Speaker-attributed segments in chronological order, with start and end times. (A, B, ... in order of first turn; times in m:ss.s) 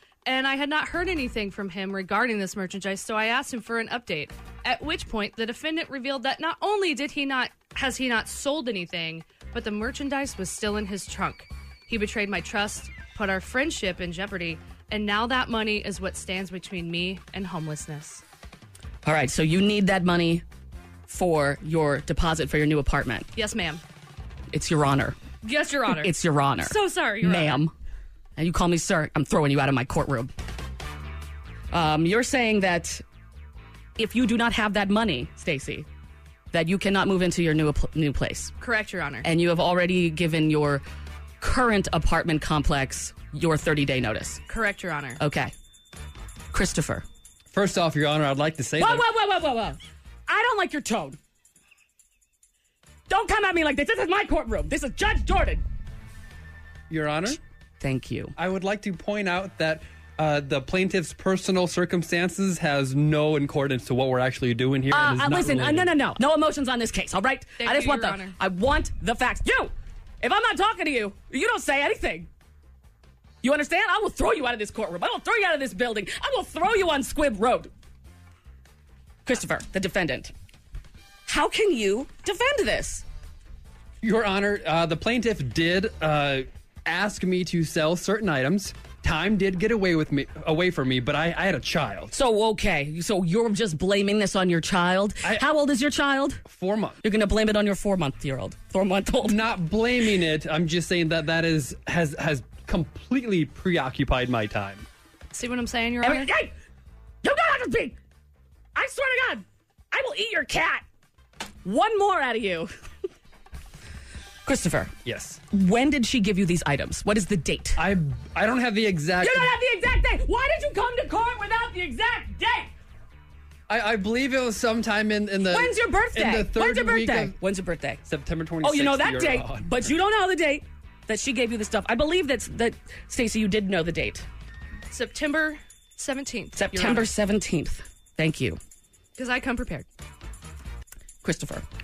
0:00.3-0:18.2 A
0:19.0-0:20.4 B
0:21.1-0:23.3 B
0:23.4-0:23.8 A
0:24.5-0:25.2 B
0:25.4-0:27.6 A
0:25.9-0:27.7 B
0:28.4-0:30.3 B
0:31.7-0:33.0 B
0:34.0-0:35.9 B
0:36.5-0:38.5 B
0:38.6-0:39.3 A
0:39.2-0:40.8 B
0:41.4-0:44.4 B
0:44.5-0:45.2 A
0:45.2-0:45.5 B
0:46.5-0:47.0 B
0:47.5-0:49.1 C
0:48.8-0:51.2 B
0:53.1-0:55.6 B
0:56.9-0:57.4 C
0:57.4-0:58.3 B
0:58.4-1:06.0 C
1:04.9-1:12.3 B
1:07.6-1:08.4 A
1:13.4-1:17.7 B
1:19.2-1:20.3 B
1:21.3-1:23.0 B
1:24.0-1:32.1 C
1:32.1-1:36.4 B
1:36.5-1:37.0 C
1:37.0-1:39.4 B
1:39.2-1:44.9 C
1:45.3-1:46.3 A
1:46.0-1:46.5 B
1:47.2-1:48.0 B
1:48.8-1:50.8 B
1:51.6-1:52.7 B
1:54.5-1:54.9 B
1:55.0-1:55.4 C
1:55.5-1:57.8 B
1:57.8-1:59.6 C
1:59.2-2:02.7 B
2:03.7-2:07.4 C
2:05.4-2:08.0 B
2:08.1-2:09.9 C
2:08.6-2:14.3 B
2:14.9-2:17.1 A
2:16.6-2:18.6 B
2:19.2-2:19.9 A
2:21.2-2:21.6 B